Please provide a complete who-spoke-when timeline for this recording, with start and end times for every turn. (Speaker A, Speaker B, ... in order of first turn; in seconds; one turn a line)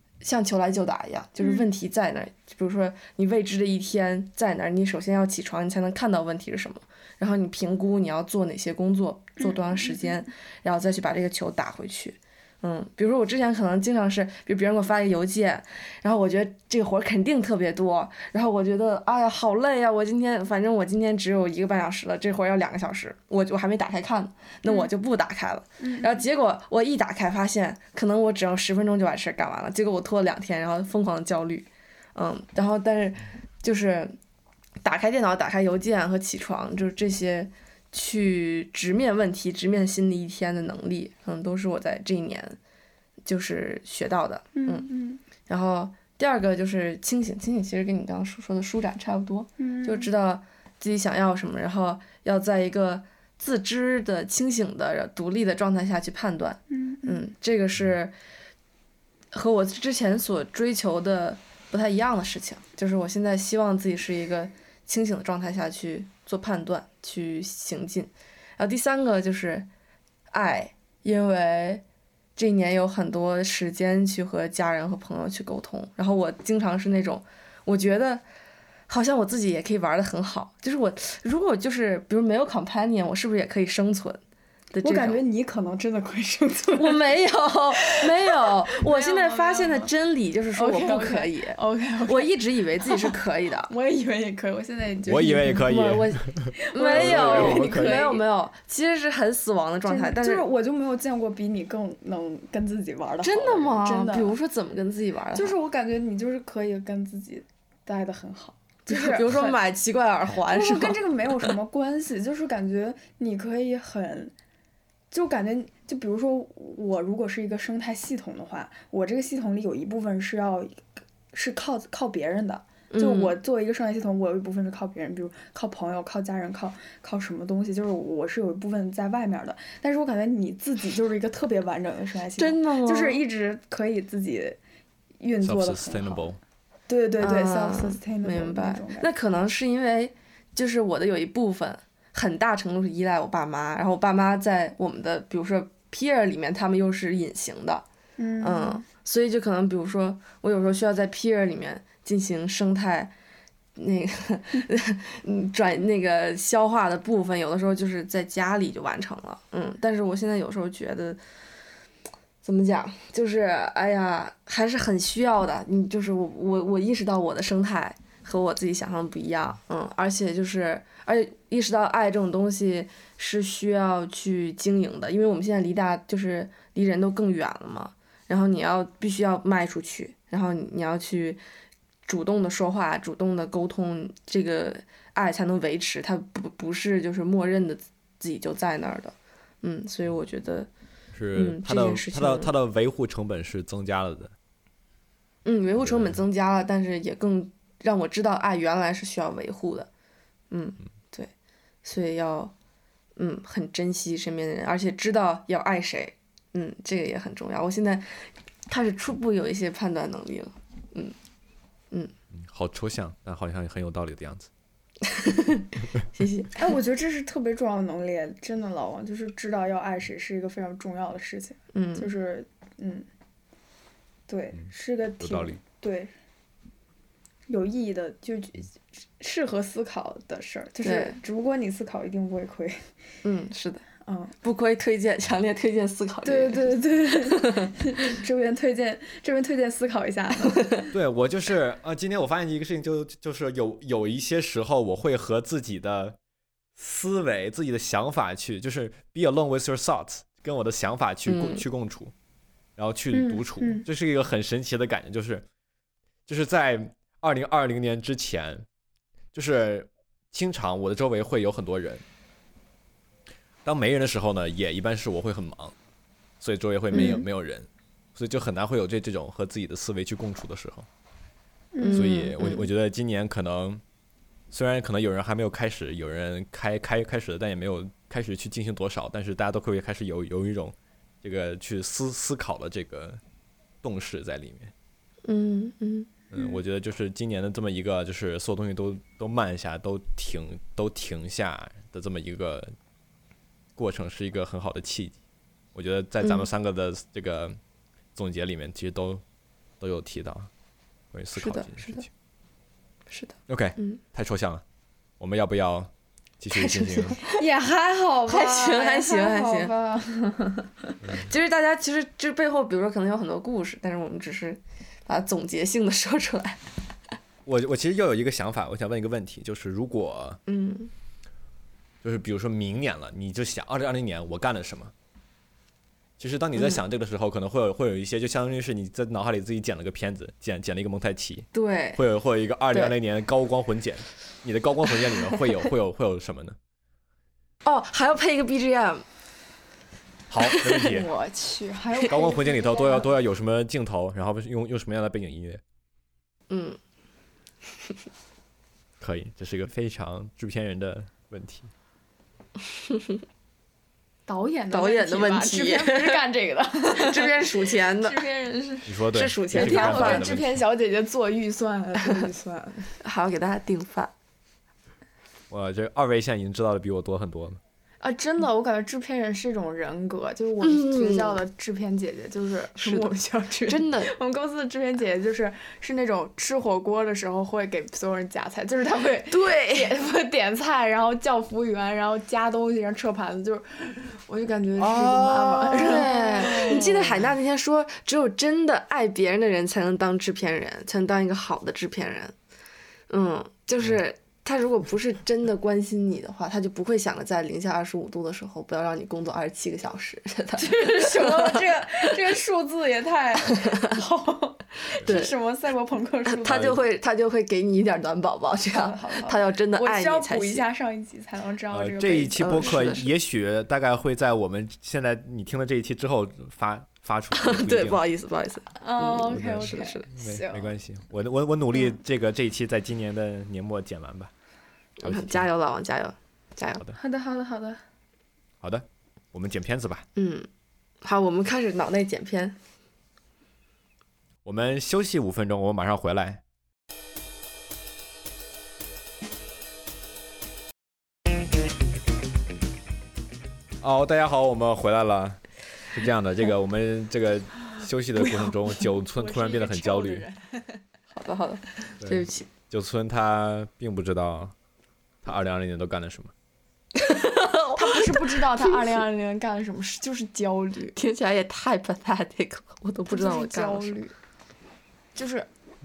Speaker A: 0.2-34.1
Speaker B: 1.4-1.7
Speaker B: 9.4-10.2
Speaker B: 24.6-24.9
Speaker B: 25.8-26.2
Speaker A: 34.8-42.6
Speaker A: 43.2-44.9
Speaker B: 44.5-45.2
Speaker A: 45.5-58.1
Speaker B: 49.6-50.1
Speaker B: 56.7-57.2
Speaker A: 59.3-69.7
Speaker A: 70.3-71.8
Speaker A: 72.3-78.2
Speaker A: 78.9-84.2
Speaker A: 84.7-85.2
Speaker B: 84.8-87.0
Speaker A: 86.8-93.7
Speaker B: 87.8-89.9
Speaker B: 90.5-95.7
Speaker C: 95.0-98.1
Speaker A: 95.4-100.5
Speaker B: 96.5-98.2
Speaker B: 99.8-104.3
Speaker A: 103.2-105.6
Speaker B: 105.3-109.6
Speaker A: 108.9-111.4
Speaker B: 110.5-114.3
Speaker B: 115.1-134.6
Speaker A: 122.9-123.4
Speaker A: 132.4-133.2
Speaker B: 135.2-136.3
Speaker C: 135.4-136.4
Speaker B: 136.9-139.1
Speaker A: 137.2-147.8
Speaker B: 148.2-148.8
Speaker A: 148.4-153.1
Speaker A: 153.8-161.2
Speaker A: 162.4-181.4
Speaker A: 182.1-190.7
Speaker C: 191.1-194.3
Speaker A: 191.3-192.5
Speaker A: 195.4-199.9
Speaker C: 195.8-196.2
Speaker A: 200.5-201.3
Speaker A: 201.8-202.5
Speaker A: 203.2-211.2
Speaker C: 212.3-214.5
Speaker A: 215.0-216.6
Speaker B: 216.5-223.1
Speaker A: 221.7-222.1
Speaker B: 224.3-226.1
Speaker C: 225.2-225.6
Speaker B: 227.5-232.9
Speaker A: 230.8-231.2
Speaker A: 233.2-233.8
Speaker B: 234.0-234.3
Speaker A: 234.4-237.8
Speaker B: 236.2-240.9
Speaker C: 240.9-246.2
Speaker C: 246.8-252.1
Speaker A: 251.3-251.6
Speaker C: 252.8-255.4
Speaker B: 253.1-253.8
Speaker C: 256.3-258.6
Speaker C: 259.3-262.0
Speaker C: 263.6-265.7
Speaker C: 266.4-270.9
Speaker A: 266.9-267.2
Speaker B: 271.7-272.3
Speaker A: 271.8-272.7
Speaker C: 271.9-273.8
Speaker C: 274.5-283.2
Speaker C: 283.8-284.7
Speaker A: 285.2-286.1
Speaker C: 286.3-292.7
Speaker C: 293.8-295.2
Speaker C: 295.7-297.6
Speaker A: 296.2-296.5
Speaker C: 298.1-299.2
Speaker C: 299.8-300.5
Speaker C: 301.1-302.1
Speaker A: 301.4-302.1
Speaker A: 303.1-304.0
Speaker C: 303.5-304.6
Speaker C: 305.2-307.2
Speaker A: 306.5-307.4
Speaker B: 307.3-310.7
Speaker A: 308.3-309.7
Speaker C: 311.0-311.3
Speaker A: 311.2-316.6
Speaker C: 317.4-320.4
Speaker A: 320.5-320.9
Speaker C: 322.0-324.9
Speaker C: 326.2-336.6
Speaker A: 326.6-326.8
Speaker A: 331.5-332.0
Speaker A: 337.6-339.0
Speaker C: 340.3-341.1
Speaker A: 340.4-341.0
Speaker B: 340.8-343.1
Speaker C: 342.1-345.6
Speaker A: 346.5-346.8
Speaker C: 349.0-351.7
Speaker B: 354.3-362.9
Speaker A: 354.7-356.2
Speaker A: 356.9-358.2
Speaker C: 358.9-360.6
Speaker A: 359.1-360.4
Speaker A: 363.0-364.1
Speaker C: 365.5-367.6
Speaker B: 368.0-387.2
Speaker A: 370.6-371.4
Speaker A: 372.8-373.1
Speaker A: 373.7-374.1
Speaker A: 379.3-379.9
Speaker C: 384.8-385.6
Speaker A: 385.4-392.3
Speaker A: 393.1-402.0
Speaker B: 400.6-406.8
Speaker A: 405.0-405.3
Speaker A: 406.3-410.6
Speaker C: 406.5-406.8
Speaker B: 408.7-413.0
Speaker C: 411.7-418.0
Speaker A: 412.4-413.1
Speaker A: 417.3-420.1
Speaker B: 418.8-420.7
Speaker C: 419.3-424.3
Speaker A: 425.0-426.8
Speaker C: 425.0-425.5
Speaker B: 426.9-427.8
Speaker C: 428.6-430.0
Speaker A: 430.1-430.5
Speaker A: 431.0-432.6
Speaker C: 434.4-436.4
Speaker C: 443.8-445.4
Speaker C: 445.9-450.2
Speaker B: 448.2-450.8
Speaker A: 451.1-452.5
Speaker C: 452.0-454.5
Speaker C: 455.2-456.3
Speaker A: 456.9-459.0
Speaker B: 457.8-460.9
Speaker A: 460.9-464.0
Speaker B: 463.1-464.1
Speaker B: 465.1-465.5